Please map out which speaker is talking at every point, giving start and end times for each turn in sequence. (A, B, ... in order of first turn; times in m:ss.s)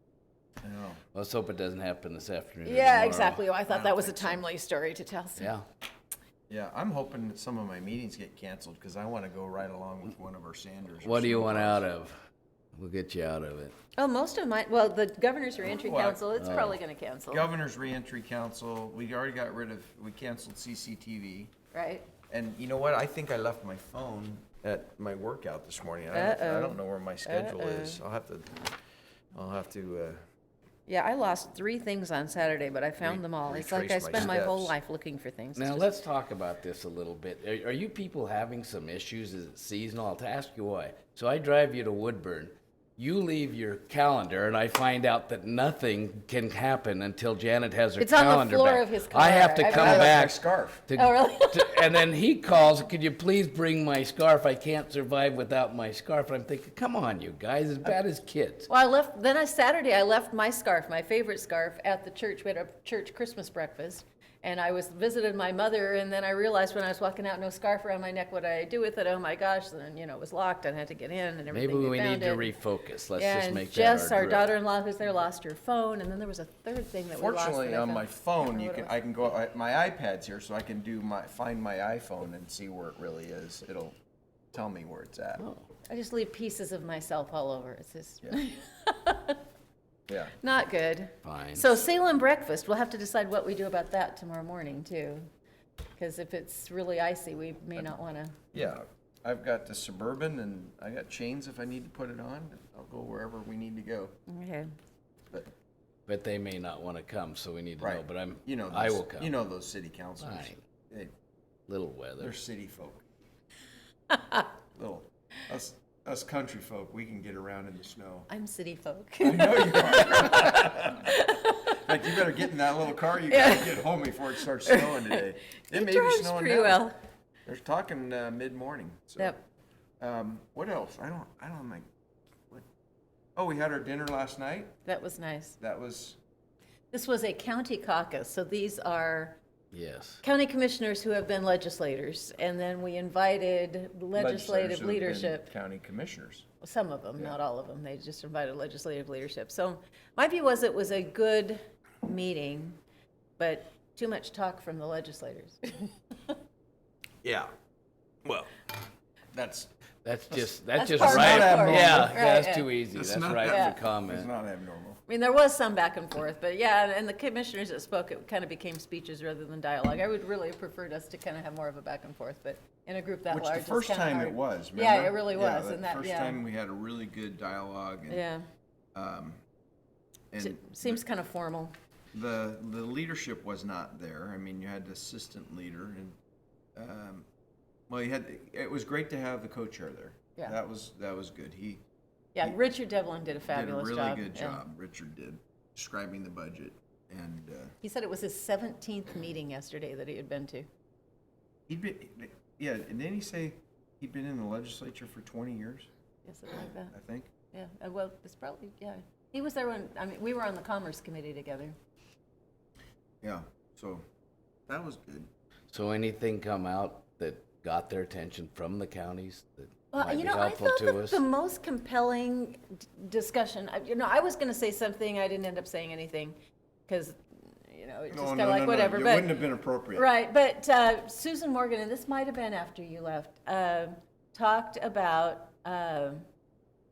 0:00.6-0:01.0 A
0:01.1-0:03.4 B
0:02.6-0:05.5 C
0:03.7-0:04.4 A
0:05.4-0:05.6 B
0:06.5-0:11.8 A
0:11.0-0:12.2 B
0:12.8-0:13.7 B
0:14.0-0:17.5 C
0:15.8-0:16.3 A
0:16.4-0:16.8 B
0:17.3-0:21.5 A
0:21.7-0:22.1 C
0:22.3-0:28.7 A
0:26.1-0:28.0 C
0:29.3-0:30.2 A
0:30.9-0:35.9 C
0:33.0-0:34.7 A
0:35.6-0:58.7 B
0:48.0-0:50.2 C
0:49.7-0:50.8 A
0:50.9-0:51.9 C
0:58.7-1:12.5 C
1:11.5-1:14.5 B
1:13.2-1:19.0 C
1:17.1-1:23.9 A
1:24.5-1:25.4 A
1:25.4-1:25.6 B
1:25.9-1:29.4 C
1:30.1-1:30.4 A
1:30.4-1:35.3 C
1:31.2-1:31.7 B
1:36.0-1:38.4 C
1:38.5-1:44.2 A
1:44.3-1:44.7 C
1:46.1-1:49.3 B
1:47.8-1:51.1 A
1:50.2-1:50.6 B
1:51.7-1:52.4 B
1:52.2-1:53.0 A
1:54.7-1:58.3 A
1:58.3-2:01.9 C
1:59.2-2:01.1 A
2:01.7-2:06.8 A
2:03.3-2:03.9 C
2:04.4-2:07.0 C
2:07.5-2:09.4 A
2:10.0-2:11.9 A
2:13.4-2:14.8 A
2:14.8-2:15.6 C
2:15.6-2:16.2 A
2:16.9-2:19.4 C
2:19.7-2:20.2 B
2:20.2-2:25.5 C
2:24.2-2:26.5 A
2:26.6-2:32.8 C
2:33.4-2:36.4 C
2:37.2-2:37.5 A
2:38.2-2:38.6 A
2:39.3-2:39.7 A
2:40.0-2:44.3 B
2:40.3-2:42.2 A
2:40.8-2:42.7 C
2:42.9-2:45.0 A
2:43.5-2:43.8 C
2:45.1-2:56.4 C
2:53.3-2:58.2 A
2:58.1-2:58.4 C
2:58.9-2:59.4 A
3:00.3-3:01.0 A
3:00.4-3:01.7 C
3:02.1-3:06.2 A
3:06.8-3:07.3 A
3:07.9-3:11.8 A
3:12.4-3:14.6 C
3:13.5-3:17.8 A
3:17.8-3:20.7 C
3:21.7-3:25.9 A
3:26.2-3:26.9 C
3:26.9-3:27.3 A
3:27.5-3:31.8 C
3:33.2-3:34.0 A
3:34.7-3:35.3 A
3:35.7-3:41.2 B
3:39.9-3:46.4 C
3:46.9-3:47.2 C
3:47.7-3:49.4 C
3:48.1-3:50.1 A
3:49.9-3:56.2 C